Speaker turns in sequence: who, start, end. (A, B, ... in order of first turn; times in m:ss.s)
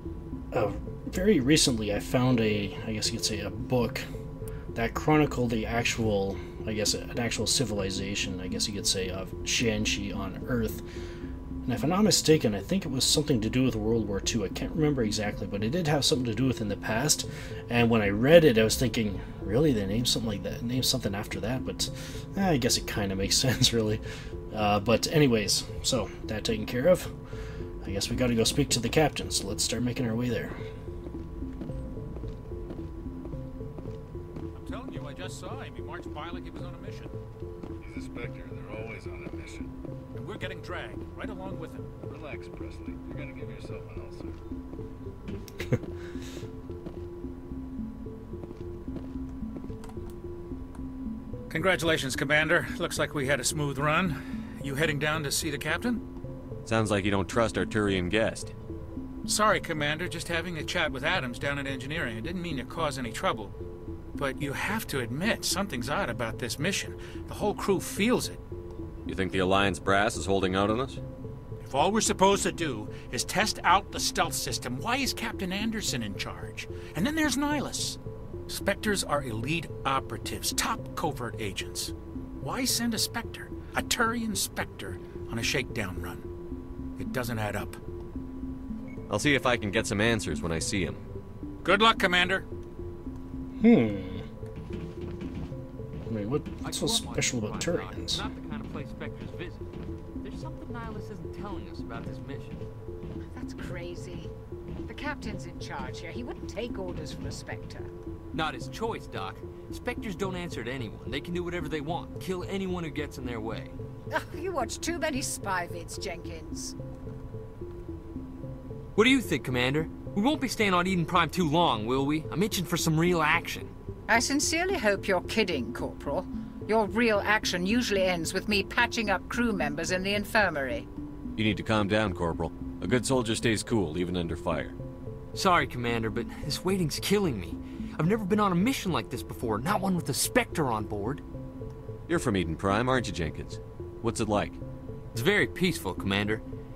0:00.5-0:04.1 A
0:04.7-0:10.8 A
0:11.6-0:27.1 A
0:27.8-0:30.6 A
0:34.5-0:37.2 B
0:37.8-0:39.7 C
0:40.2-0:41.9 B
0:42.0-0:44.4 C
0:51.5-0:56.0 B
0:56.6-0:58.5 D
0:59.2-1:03.5 B
1:04.2-1:08.4 B
1:09.1-1:11.0 D
1:11.6-1:26.2 B
1:27.0-1:27.8 B
1:29.1-1:31.0 D
1:31.6-1:32.5 B
1:33.6-1:34.2 A
1:36.1-1:38.3 A
1:36.6-1:39.7 E
1:40.2-1:42.6 E
1:43.3-1:44.3 F
1:44.9-1:47.9 F
1:48.3-1:53.7 E
1:54.1-1:56.8 F
1:59.0-2:03.7 E
2:04.1-2:10.9 F
2:11.4-2:14.8 D
2:15.3-2:21.2 E
2:22.1-2:24.6 D
2:25.1-2:26.4 E